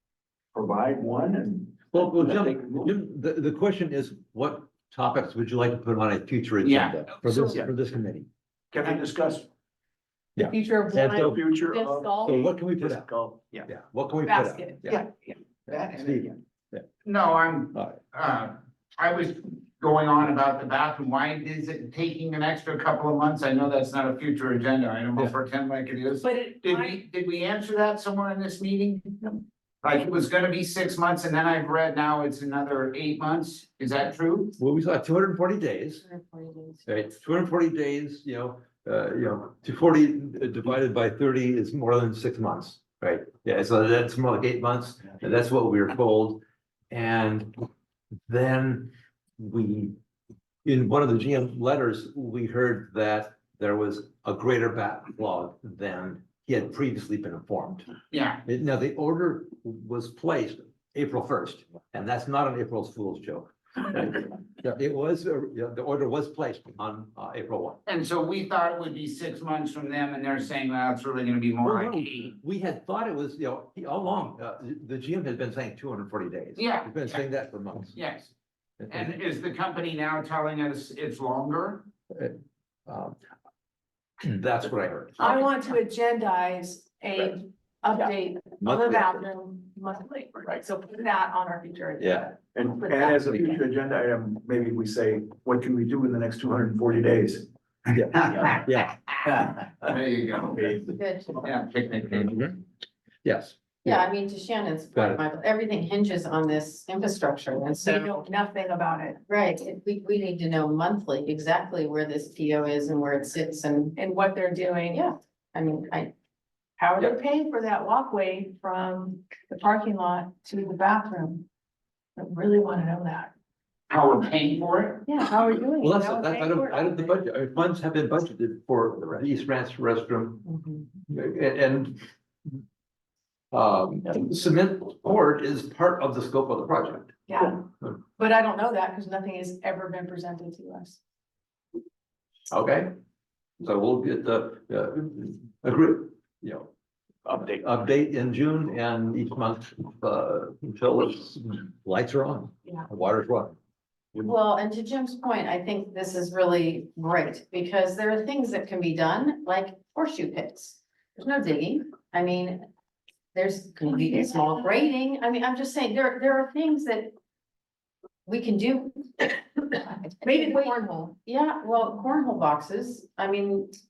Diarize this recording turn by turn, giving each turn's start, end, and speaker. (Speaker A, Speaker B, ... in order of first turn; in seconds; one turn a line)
Speaker A: 0.5-2.9
Speaker B: 1.9-8.3
Speaker C: 6.6-7.6
Speaker A: 8.7-9.5
Speaker B: 10.3-11.4
Speaker D: 10.4-12.5
Speaker A: 11.2-13.7
Speaker B: 12.2-13.1
Speaker B: 13.7-15.0
Speaker D: 14.2-15.0
Speaker A: 14.9-15.1
Speaker A: 15.7-16.4
Speaker B: 15.7-16.8
Speaker C: 17.0-34.5
Speaker D: 26.2-27.0
Speaker B: 34.6-36.0
Speaker E: 36.0-36.9
Speaker B: 36.9-47.5
Speaker B: 48.3-49.9
Speaker B: 50.6-57.9
Speaker C: 58.1-58.4
Speaker B: 58.4-67.8
Speaker C: 67.8-72.3
Speaker B: 71.6-78.0
Speaker C: 76.6-77.2
Speaker C: 77.9-78.3
Speaker B: 78.8-79.1
Speaker C: 78.9-81.8
Speaker B: 82.9-83.2
Speaker B: 84.2-85.5
Speaker D: 85.2-93.1
Speaker B: 88.6-89.2
Speaker B: 92.0-92.3
Speaker A: 92.5-97.5
Speaker B: 97.9-99.9
Speaker C: 98.2-98.7
Speaker C: 99.8-100.8
Speaker E: 100.8-101.5
Speaker C: 101.4-102.5
Speaker B: 102.2-102.6
Speaker B: 103.2-104.1
Speaker E: 103.8-108.2
Speaker B: 104.9-105.2
Speaker D: 107.8-109.2
Speaker E: 109.3-114.0
Speaker D: 114.0-115.1
Speaker E: 114.9-116.1
Speaker D: 116.8-121.5
Speaker D: 122.2-123.3
Speaker C: 123.9-125.0
Speaker D: 125.0-127.2
Speaker B: 125.8-130.4
Speaker B: 131.1-132.1
Speaker B: 133.5-137.2
Speaker D: 137.3-137.6
Speaker D: 138.2-141.0
Speaker B: 142.5-142.9
Speaker B: 143.6-146.7
Speaker A: 147.3-147.6
Speaker B: 147.6-153.6
Speaker E: 154.2-162.7
Speaker E: 163.3-167.1
Speaker E: 168.2-169.4
Speaker E: 170.0-173.8
Speaker D: 170.2-171.1